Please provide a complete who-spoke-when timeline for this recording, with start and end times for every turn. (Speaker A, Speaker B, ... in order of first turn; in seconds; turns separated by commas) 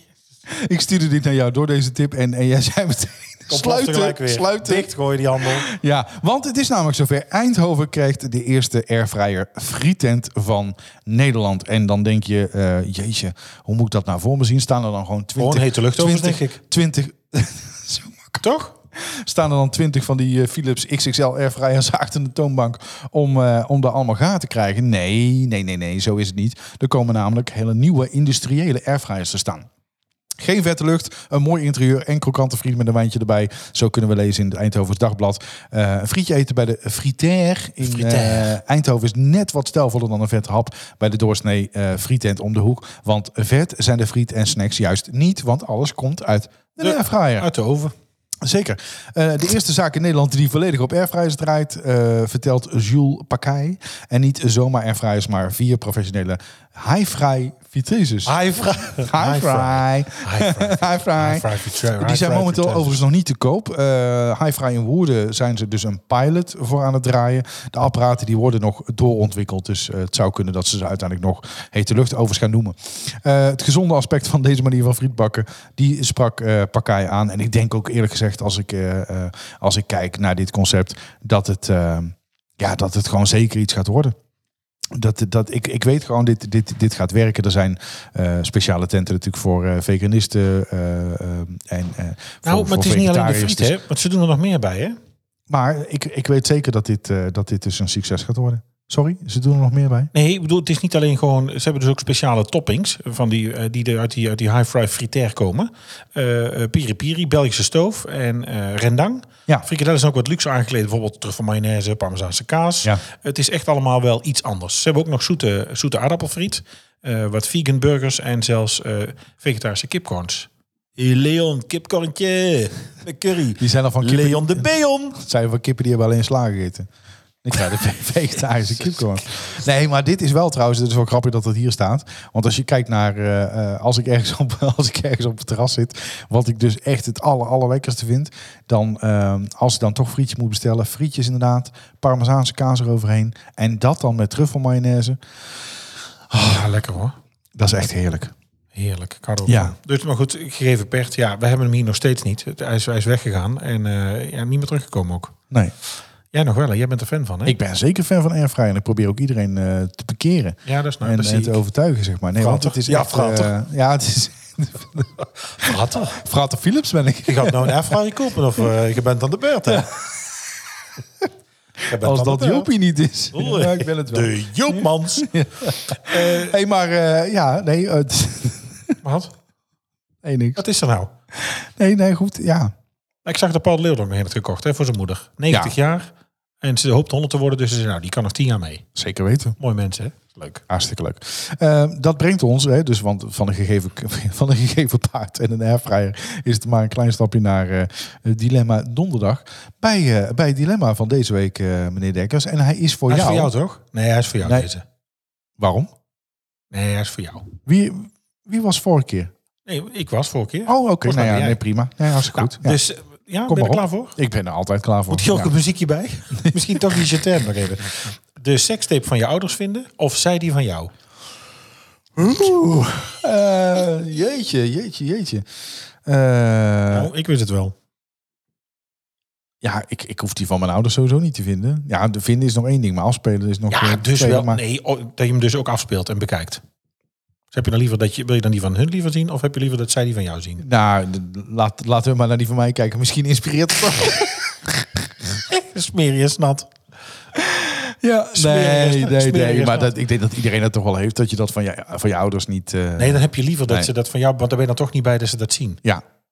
Speaker A: 0.5-4.9, Speaker B: 3.5-5.7, Speaker A: 5.4-18.4, Speaker B: 15.4-16.6, Speaker B: 18.4-18.8, Speaker A: 18.9-29.7, Speaker A: 30.4-47.5, Speaker B: 37.8-38.6, Speaker B: 46.8-47.9, Speaker A: 48.4-58.3, Speaker B: 58.2-63.0, Speaker A: 59.0-84.2, Speaker A: 84.9-93.8, Speaker B: 92.5-95.0, Speaker A: 95.5-100.1, Speaker B: 100.1-125.2, Speaker A: 123.6-126.9, Speaker A: 127.4-145.2, Speaker A: 146.3-146.6, Speaker B: 146.4-147.2, Speaker A: 147.6-148.3, Speaker B: 148.7-155.3, Speaker A: 149.5-149.7, Speaker B: 156.3-157.6, Speaker A: 157.5-168.0, Speaker B: 160.7-161.6, Speaker B: 162.4-163.5, Speaker B: 165.6-166.2, Speaker B: 167.3-169.9, Speaker A: 169.7-170.3, Speaker B: 171.9-172.7, Speaker A: 172.0-179.0, Speaker B: 173.3-176.6, Speaker B: 179.0-179.3, Speaker A: 180.2-180.6, Speaker B: 180.6-181.1, Speaker A: 181.3-182.7, Speaker B: 183.2-188.9, Speaker A: 185.5-185.8, Speaker A: 189.0-189.6, Speaker B: 189.6-190.6, Speaker A: 190.7-203.5, Speaker B: 203.1-204.8, Speaker A: 204.4-204.7, Speaker A: 205.6-205.9, Speaker B: 206.7-207.5, Speaker A: 207.7-209.3, Speaker B: 209.7-211.6, Speaker A: 210.7-212.8, Speaker B: 212.3-214.2, Speaker A: 213.5-215.5, Speaker B: 215.1-220.9, Speaker A: 216.4-216.9, Speaker A: 222.2-225.5, Speaker A: 226.1-227.1, Speaker B: 226.9-227.8, Speaker A: 229.6-234.6, Speaker B: 233.7-236.6, Speaker B: 237.5-240.7, Speaker A: 240.6-244.9, Speaker B: 245.5-246.8, Speaker A: 247.4-253.9, Speaker B: 248.3-249.9, Speaker B: 253.0-255.8